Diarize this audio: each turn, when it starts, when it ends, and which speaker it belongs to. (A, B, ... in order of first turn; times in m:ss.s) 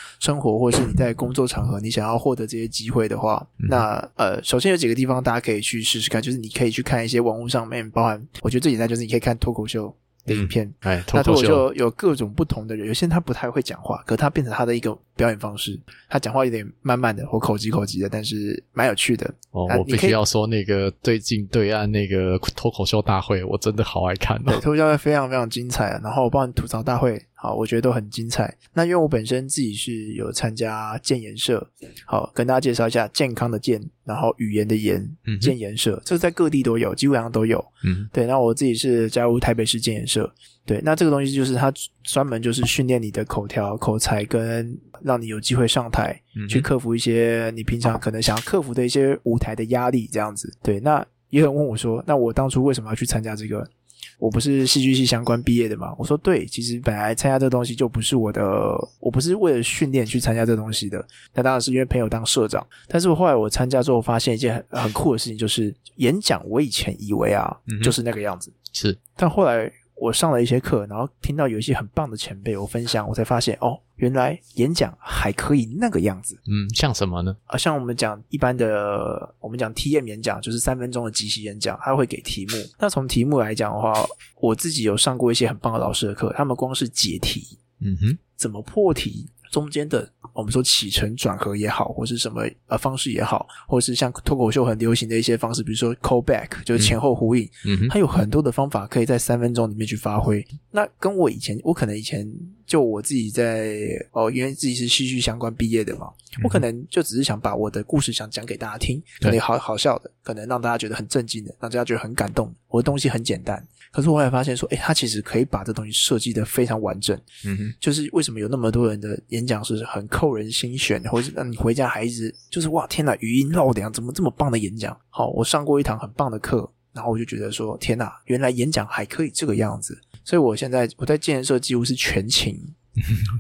0:00.2-0:20.2 A
0:10.3-0:11.6 B
0:19.5-0:24.6 B
0:24.5-1:08.5 A
0:35.3-0:35.5 B
0:37.8-0:38.1 B
0:46.4-0:46.7 B
1:07.7-1:07.9 B
1:08.7-1:09.0 B
1:09.2-1:16.4 A
1:16.4-1:17.4 B
1:17.5-1:27.6 A
1:27.8-1:28.2 B
1:28.4-1:57.2 A
1:37.6-1:37.9 B
1:57.4-1:57.7 B
1:57.8-2:12.7 A